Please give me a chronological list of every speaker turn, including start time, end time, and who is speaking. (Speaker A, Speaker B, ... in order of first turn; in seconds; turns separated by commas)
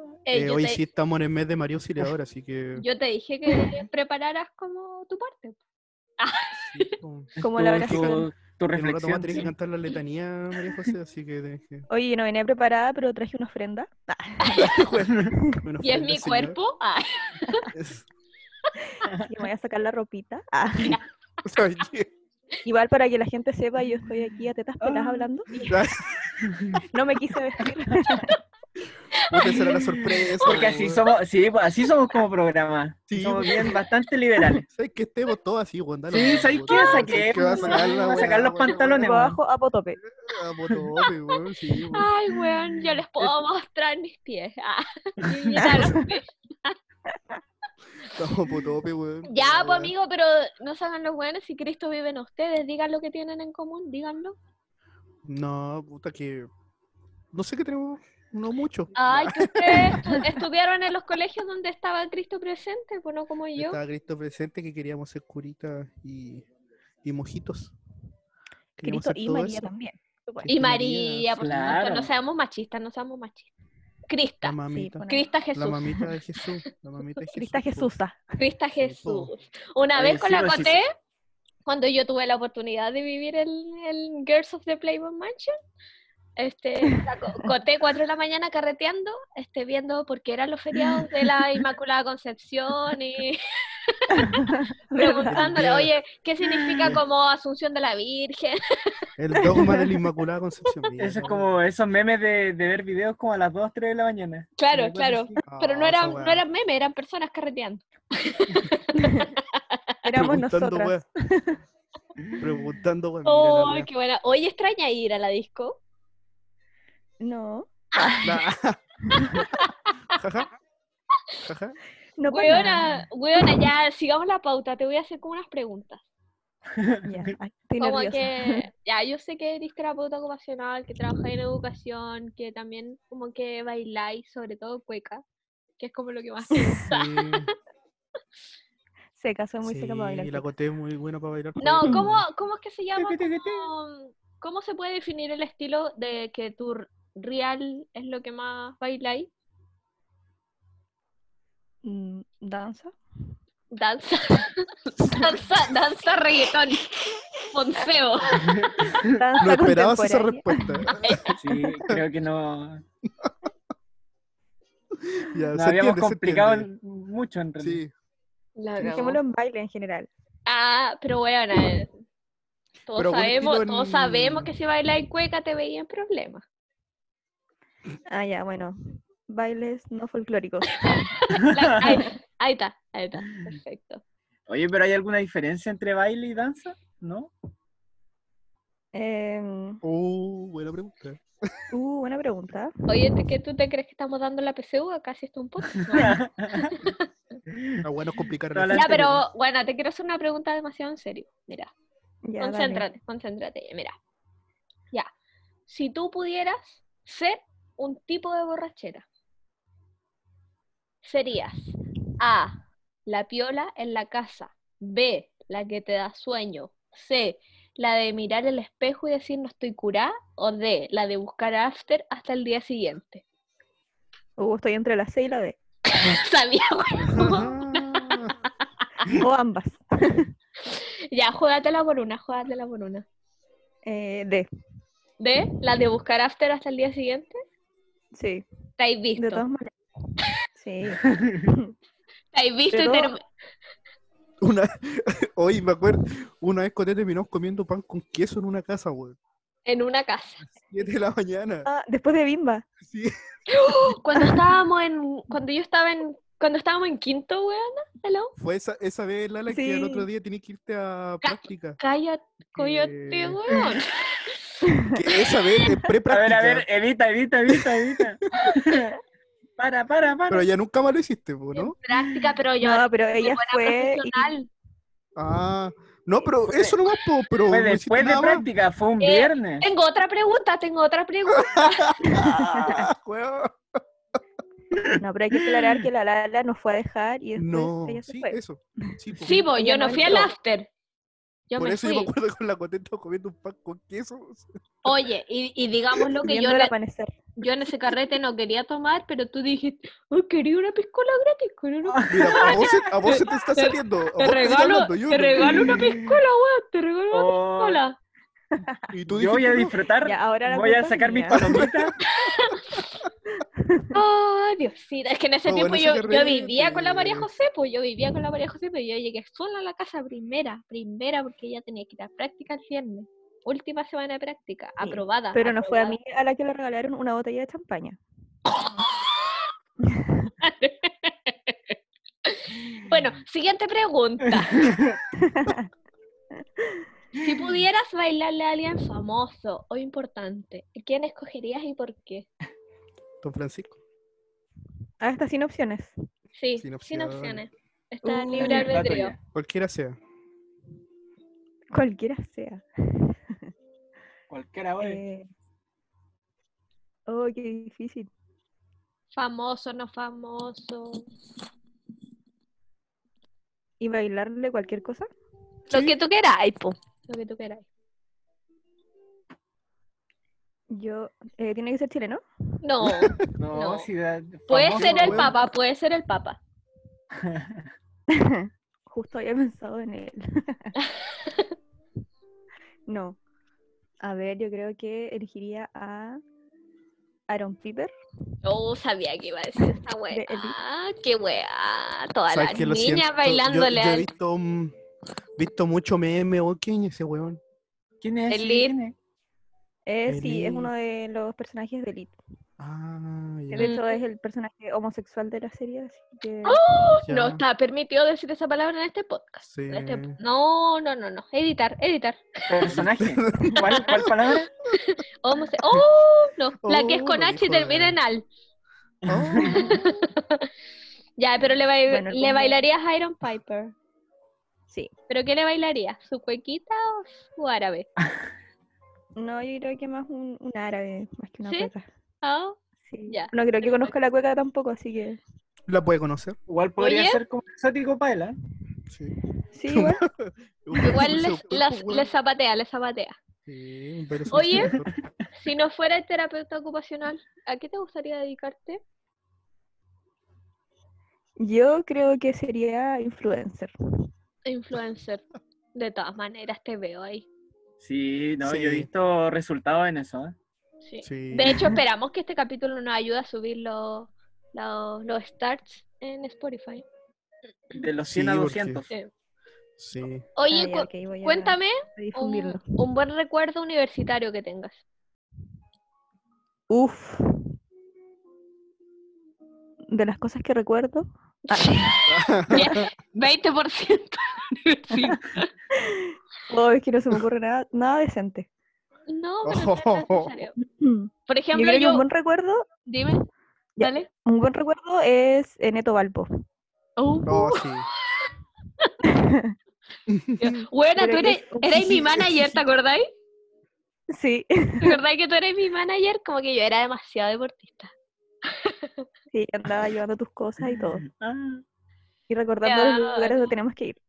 Speaker A: 0.3-0.8, Speaker B: 0.3-2.9, Speaker A: 2.8-5.6, Speaker A: 6.2-6.9, Speaker B: 6.5-11.9, Speaker C: 7.4-9.5, Speaker D: 7.4-8.3, Speaker D: 11.9-15.6, Speaker B: 14.5-16.6, Speaker A: 15.8-17.7, Speaker B: 17.7-18.1, Speaker D: 19.0-21.0, Speaker B: 21.4-22.1, Speaker D: 22.6-25.7, Speaker C: 24.8-25.3, Speaker B: 25.7-26.5, Speaker C: 26.4-26.8, Speaker D: 26.8-28.4, Speaker A: 29.1-29.6, Speaker B: 29.3-31.0, Speaker C: 30.0-34.6, Speaker A: 30.4-30.7, Speaker B: 33.1-33.8, Speaker B: 34.7-39.1, Speaker C: 36.1-39.4, Speaker A: 36.7-38.7, Speaker D: 38.9-40.0, Speaker B: 40.0-42.1, Speaker A: 41.9-46.8, Speaker D: 45.5-46.1, Speaker B: 48.1-49.9, Speaker A: 49.3-54.4, Speaker B: 55.2-56.5, Speaker B: 57.3-60.3, Speaker A: 58.9-63.8, Speaker B: 63.5-66.5, Speaker B: 67.0-67.7, Speaker B: 68.8-69.7, Speaker D: 68.8-70.5, Speaker B: 70.4-71.8, Speaker A: 70.5-73.5, Speaker C: 71.4-72.1, Speaker A: 74.1-76.0, Speaker B: 74.4-75.0, Speaker D: 74.7-75.2, Speaker B: 75.5-77.9, Speaker D: 77.3-78.2, Speaker A: 78.4-80.9, Speaker B: 78.8-79.3, Speaker C: 80.0-80.8, Speaker A: 81.7-85.5, Speaker A: 86.4-94.3, Speaker D: 94.2-95.6, Speaker A: 94.9-98.6, Speaker B: 95.3-95.9, Speaker B: 99.2-101.5, Speaker D: 99.4-99.9, Speaker C: 101.0-105.4, Speaker A: 104.6-110.0, Speaker B: 105.5-106.4, Speaker D: 109.0-109.3, Speaker D: 110.0-111.6, Speaker B: 110.2-111.0, Speaker B: 112.4-113.9, Speaker A: 113.2-115.8, Speaker D: 117.2-118.4, Speaker B: 118.2-118.8, Speaker A: 119.1-119.9, Speaker D: 119.2-119.4, Speaker B: 120.1-120.5, Speaker B: 121.5-121.8, Speaker D: 122.2-123.7, Speaker A: 122.3-126.0, Speaker C: 126.8-127.3, Speaker D: 127.0-128.6, Speaker A: 127.8-135.2, Speaker A: 135.8-137.4, Speaker B: 136.8-137.5, Speaker D: 139.2-140.5, Speaker B: 139.6-142.2, Speaker A: 141.6-149.3, Speaker C: 142.9-143.7, Speaker D: 151.8-152.9, Speaker A: 153.7-158.7, Speaker C: 158.4-159.1, Speaker D: 158.8-160.9, Speaker B: 159.4-161.3, Speaker A: 160.9-161.3, Speaker C: 161.3-162.8, Speaker B: 165.0-166.7, Speaker C: 165.5-167.8, Speaker B: 167.6-167.9, Speaker A: 168.6-169.2, Speaker D: 168.8-170.1, Speaker A: 170.4-171.9, Speaker A: 172.9-176.4, Speaker B: 172.9-174.5, Speaker D: 178.1-181.1, Speaker A: 180.8-184.0, Speaker C: 184.5-187.3, Speaker D: 188.9-189.8, Speaker B: 189.8-191.7, Speaker D: 191.7-193.1, Speaker A: 192.9-197.1, Speaker C: 195.9-196.7, Speaker C: 197.5-197.8, Speaker B: 197.8-199.2, Speaker C: 198.5-199.2, Speaker A: 198.7-201.7, Speaker D: 202.2-202.8, Speaker A: 202.4-203.9, Speaker A: 205.7-209.1, Speaker A: 211.0-223.2, Speaker D: 224.4-225.6, Speaker A: 225.9-228.3, Speaker B: 227.1-228.3, Speaker D: 229.1-230.3, Speaker A: 230.6-233.0, Speaker D: 233.8-234.5, Speaker A: 235.2-237.4, Speaker D: 238.1-238.4, Speaker A: 238.8-239.4, Speaker D: 239.2-239.7, Speaker D: 240.6-241.7, Speaker A: 242.3-243.2, Speaker D: 242.7-243.1, Speaker B: 244.4-249.2, Speaker A: 249.7-250.4, Speaker B: 250.5-251.7, Speaker D: 251.6-252.6, Speaker B: 252.8-253.1, Speaker A: 253.5-258.3, Speaker D: 254.2-254.5, Speaker B: 258.4-261.8, Speaker D: 259.5-260.1, Speaker A: 261.2-264.4, Speaker B: 262.5-263.4, Speaker D: 264.6-265.0, Speaker B: 264.9-266.6, Speaker C: 266.1-269.0, Speaker B: 267.5-268.1, Speaker C: 269.6-270.5, Speaker B: 270.3-271.8, Speaker A: 271.5-274.5, Speaker D: 272.6-274.3, Speaker B: 275.1-278.4, Speaker C: 277.5-279.7, Speaker A: 279.0-282.0, Speaker B: 281.3-283.8, Speaker D: 282.0-282.9, Speaker C: 284.7-285.7, Speaker D: 285.0-288.4, Speaker B: 287.4-289.5, Speaker A: 289.2-290.7, Speaker D: 289.5-290.3, Speaker A: 291.5-292.1, Speaker B: 291.6-294.5, Speaker A: 294.8-296.7, Speaker D: 296.2-297.2, Speaker A: 297.4-308.0, Speaker C: 301.8-302.7, Speaker B: 302.1-305.9, Speaker C: 305.4-306.2, Speaker C: 307.1-307.8, Speaker B: 308.9-309.7, Speaker C: 309.1-311.9, Speaker D: 310.0-311.6, Speaker B: 311.3-311.9, Speaker A: 312.1-312.9, Speaker D: 313.4-314.0, Speaker A: 313.9-326.0, Speaker B: 315.4-317.3, Speaker D: 324.8-328.0, Speaker D: 329.9-330.3, Speaker A: 330.4-331.5, Speaker A: 332.2-334.7, Speaker C: 334.5-335.0, Speaker D: 335.2-335.7, Speaker A: 337.2-342.3, Speaker B: 343.2-343.8, Speaker D: 345.0-345.9, Speaker A: 346.4-349.1, Speaker B: 346.6-347.4, Speaker D: 348.1-348.7, Speaker C: 348.4-349.2, Speaker B: 349.3-350.0, Speaker D: 351.7-353.5, Speaker C: 354.3-355.0, Speaker D: 354.8-355.3, Speaker D: 357.1-358.1, Speaker A: 359.1-361.1, Speaker D: 363.8-365.1, Speaker A: 365.7-367.6, Speaker B: 365.7-365.9, Speaker D: 370.7-372.2, Speaker A: 372.6-373.9, Speaker B: 372.8-373.2, Speaker C: 373.4-375.4, Speaker A: 374.5-376.4, Speaker B: 374.7-375.4, Speaker C: 377.2-377.5, Speaker D: 378.1-380.7, Speaker A: 380.8-381.5, Speaker D: 382.9-383.2, Speaker D: 384.0-386.2, Speaker D: 387.3-387.9, Speaker A: 388.4-394.1, Speaker D: 389.6-390.6, Speaker B: 392.3-394.7, Speaker B: 395.4-397.4, Speaker C: 398.0-398.9, Speaker A: 398.3-398.7, Speaker D: 399.9-402.1, Speaker B: 400.1-400.7, Speaker B: 402.6-403.7, Speaker D: 403.5-406.6, Speaker A: 403.6-404.0, Speaker A: 406.4-412.7, Speaker B: 407.0-407.4, Speaker B: 409.4-410.2, Speaker C: 412.5-414.5, Speaker B: 412.7-414.0, Speaker A: 414.7-418.2, Speaker B: 416.6-418.0, Speaker C: 419.0-419.6, Speaker B: 419.1-419.8, Speaker A: 419.4-420.5, Speaker A: 421.2-423.7, Speaker D: 421.9-422.6, Speaker A: 425.1-427.9, Speaker D: 429.1-431.9, Speaker A: 431.4-431.7, Speaker A: 432.2-432.6, Speaker D: 432.8-435.2, Speaker A: 433.1-433.9, Speaker B: 435.7-436.4, Speaker C: 436.5-438.4, Speaker A: 436.8-437.2, Speaker B: 438.9-439.1, Speaker D: 439.5-440.0, Speaker B: 439.7-442.1, Speaker A: 440.8-443.1, Speaker B: 443.5-445.1, Speaker A: 444.3-444.7, Speaker A: 445.3-448.8, Speaker D: 451.4-453.7, Speaker A: 454.4-457.2, Speaker C: 457.8-460.3, Speaker B: 458.4-458.9, Speaker A: 460.8-466.8, Speaker B: 461.0-461.8, Speaker C: 467.7-468.9, Speaker B: 468.1-468.8, Speaker B: 469.8-470.3, Speaker A: 470.4-474.8, Speaker D: 470.5-472.6, Speaker D: 476.7-477.4, Speaker D: 479.9-482.0, Speaker A: 481.6-485.5, Speaker B: 482.1-482.9, Speaker D: 485.7-488.5, Speaker A: 489.1-490.5, Speaker B: 489.4-490.3, Speaker D: 490.6-492.6, Speaker A: 491.3-492.0, Speaker A: 492.9-493.2, Speaker D: 493.8-496.3, Speaker A: 493.8-494.1, Speaker A: 497.0-498.3, Speaker B: 497.2-497.9, Speaker D: 499.0-499.5, Speaker B: 500.1-500.6, Speaker A: 500.4-503.1, Speaker D: 501.0-502.5, Speaker D: 504.1-505.0, Speaker A: 504.8-507.9, Speaker A: 508.5-509.1, Speaker D: 509.3-511.0, Speaker C: 510.6-511.6, Speaker D: 512.3-514.0, Speaker A: 512.6-513.5